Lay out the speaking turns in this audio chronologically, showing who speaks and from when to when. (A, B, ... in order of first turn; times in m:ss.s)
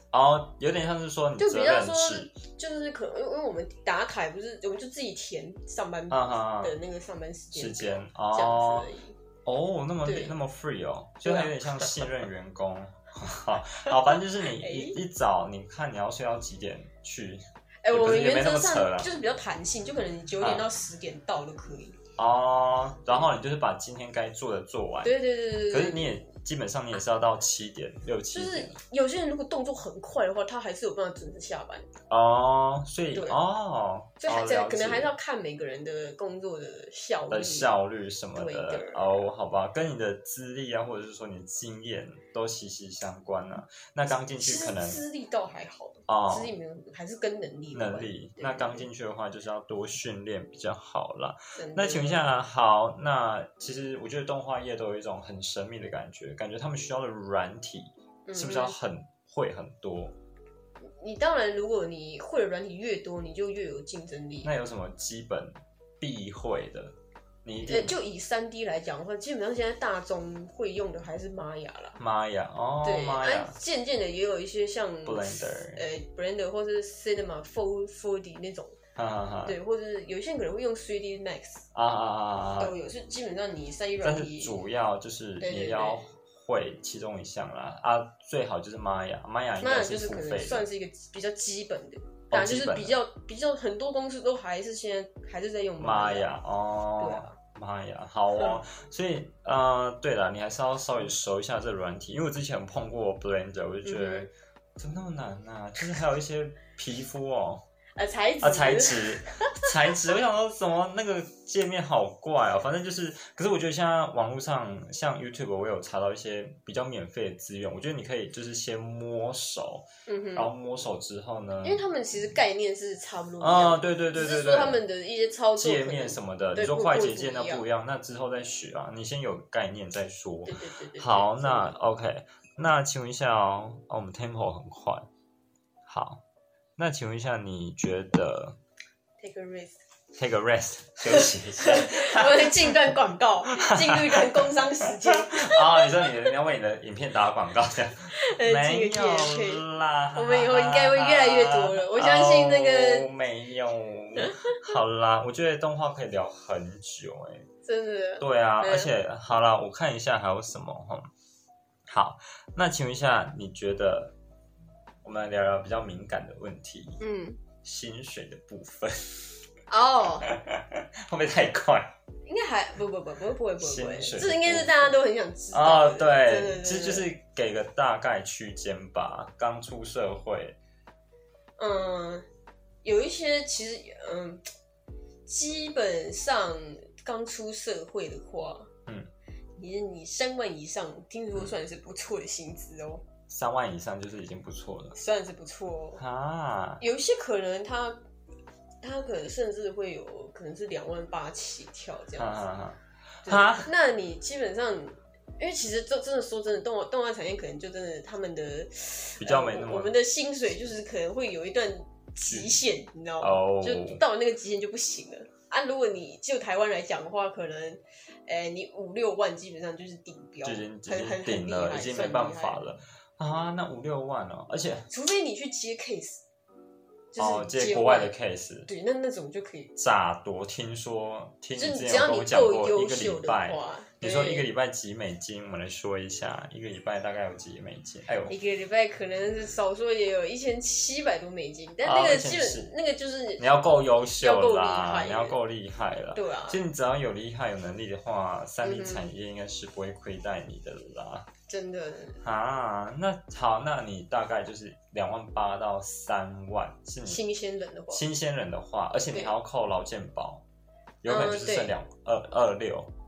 0:00.1-0:02.3 A
0:01.4-0:09.2 B
0:06.1-0:06.8 A
0:07.5-0:08.9 A
0:09.4-0:19.1 A
0:10.0-0:10.3 B
0:11.2-0:12.0 B
0:13.9-0:15.0 B
0:17.8-0:22.0 B
0:22.2-0:28.8 A
0:25.0-0:26.2 B
0:28.3-0:31.9 B
0:32.1-0:35.1 A
0:33.1-0:33.4 B
0:34.2-0:37.8 B
0:37.3-0:45.0 A
0:38.4-0:39.3 B
0:44.4-0:48.9 B
0:46.1-0:46.5 A
0:47.7-1:00.2 A
0:51.6-0:52.3 B
0:58.3-0:58.8 B
1:00.8-1:04.5 B
1:04.4-1:08.0 A
1:07.6-1:12.0 B
1:12.0-1:13.6 A
1:12.8-1:18.8 B
1:15.0-1:15.8 A
1:19.0-1:19.6 A
1:19.5-1:21.6 B
1:21.7-1:22.8 A
1:22.6-1:24.6 B
1:24.0-1:30.6 A
1:25.4-1:26.1 B
1:29.6-1:36.3 B
1:32.3-1:33.0 A
1:35.8-1:47.6 A
1:37.0-1:37.4 B
1:38.4-1:38.6 B
1:43.8-1:44.3 B
1:48.0-1:50.0 B
1:48.4-2:01.8 A
2:00.1-2:00.5 B
2:01.6-2:07.7 B
2:03.4-2:04.8 A
2:05.6-2:15.1 A
2:10.5-2:11.8 B
2:15.9-2:16.2 A
2:16.8-2:18.6 A
2:19.2-2:19.8 B
2:20.2-2:22.7 A
2:21.1-2:26.3 B
2:23.5-2:37.5 A
2:28.1-2:33.1 B
2:34.2-2:34.8 B
2:37.6-2:38.9 B
2:38.2-2:41.1 A
2:41.9-2:44.2 A
2:45.0-2:47.0 A
2:47.0-2:47.4 B
2:47.6-2:49.3 A
2:49.7-2:50.3 B
2:50.2-2:51.9 A
2:52.3-2:57.1 B
2:53.6-2:55.0 A
2:55.5-3:00.6 A
3:01.6-3:02.3 B
3:02.8-3:04.4 B
3:05.3-3:08.7 B
3:09.6-3:13.0 B
3:13.3-3:15.0 A
3:15.0-3:16.0 B
3:16.0-3:16.8 A
3:16.8-3:18.0 B
3:18.8-3:22.4 B
3:22.2-3:23.7 A
3:23.3-3:42.6 B
3:29.2-3:30.0 A
3:32.3-3:32.6 A
3:33.2-3:34.0 A
3:40.4-3:44.9 A
3:44.9-3:46.2 B
3:47.1-3:48.2 B
3:47.2-3:48.7 A
3:48.7-3:49.7 B
3:49.8-3:58.4 A
3:51.6-3:54.5 B
3:58.3-4:03.4 B
4:01.8-4:02.7 A
4:03.4-4:11.3 A
4:04.2-4:05.4 B
4:06.1-4:06.6 B
4:08.6-4:09.1 B
4:11.5-4:12.2 B
4:12.2-4:17.2 A
4:17.0-4:18.0 B
4:17.9-4:20.4 A
4:21.0-4:22.9 A
4:21.1-4:21.7 B